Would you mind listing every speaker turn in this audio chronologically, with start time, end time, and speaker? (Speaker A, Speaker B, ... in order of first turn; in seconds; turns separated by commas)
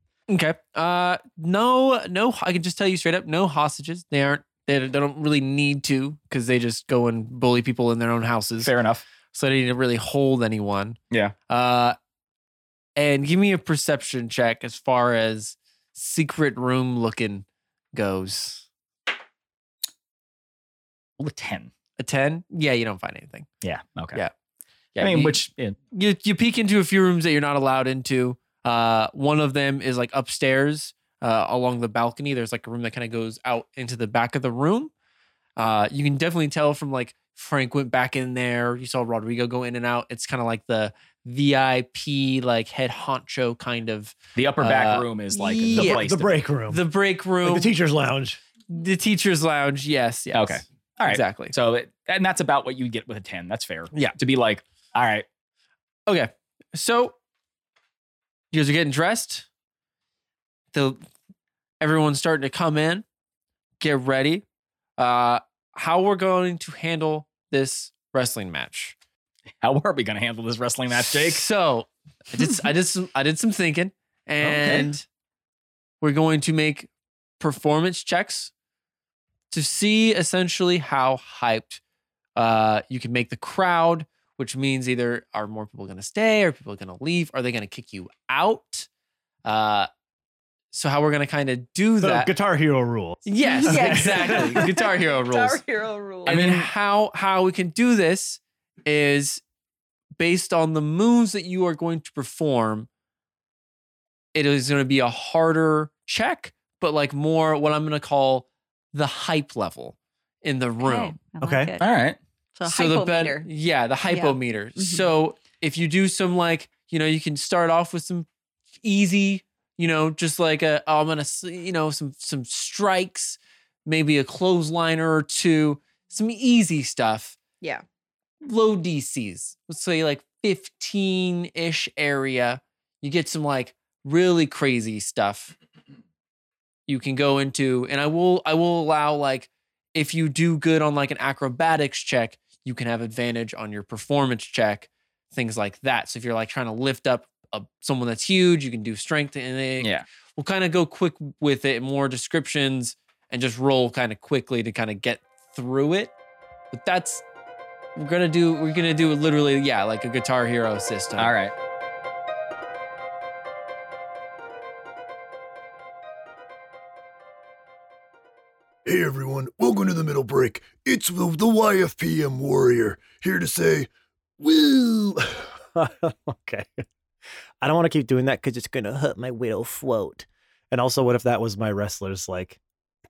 Speaker A: 0.3-8.7, Speaker B: 8.6-9.0, Speaker A: 9.3-11.0, Speaker A: 11.5-12.0, Speaker A: 13.0-18.6, Speaker B: 21.2-21.7, Speaker A: 22.0-23.5, Speaker B: 23.6-24.2, Speaker B: 25.0-25.8, Speaker A: 25.0-34.9, Speaker A: 35.6-46.1, Speaker B: 44.4-46.4, Speaker C: 45.7-46.8, Speaker A: 46.7-47.7, Speaker C: 47.4-48.4, Speaker A: 48.7-51.5, Speaker B: 50.3-55.3, Speaker A: 56.1-57.1, Speaker A: 58.5-59.5, Speaker A: 60.7-61.0, Speaker A: 61.8-63.0, Speaker A: 63.8-64.5, Speaker A: 65.0-69.0, Speaker B: 69.6-71.4, Speaker A: 71.1-75.1, Speaker B: 74.4-74.9, Speaker A: 76.0-76.9, Speaker A: 77.4-78.5, Speaker A: 79.5-81.8, Speaker A: 82.4-88.9, Speaker A: 89.5-89.9, Speaker A: 90.7-92.3, Speaker C: 92.0-94.7, Speaker A: 93.3-95.6, Speaker D: 93.4-96.4, Speaker A: 96.2-99.4, Speaker B: 96.3-96.7, Speaker A: 100.2-102.9, Speaker A: 104.3-111.2, Speaker D: 110.8-111.9, Speaker C: 111.4-111.7, Speaker B: 111.8-112.2, Speaker D: 112.6-113.5, Speaker A: 112.7-118.3, Speaker D: 114.1-115.1, Speaker A: 118.8-127.4, Speaker A: 128.4-135.6, Speaker A: 136.9-156.1, Speaker B: 149.8-150.1, Speaker A: 156.7-157.2, Speaker A: 158.0-161.3, Speaker B: 161.2-161.5, Speaker E: 168.9-173.9, Speaker C: 174.4-175.2, Speaker C: 175.7-176.7, Speaker C: 177.6-182.6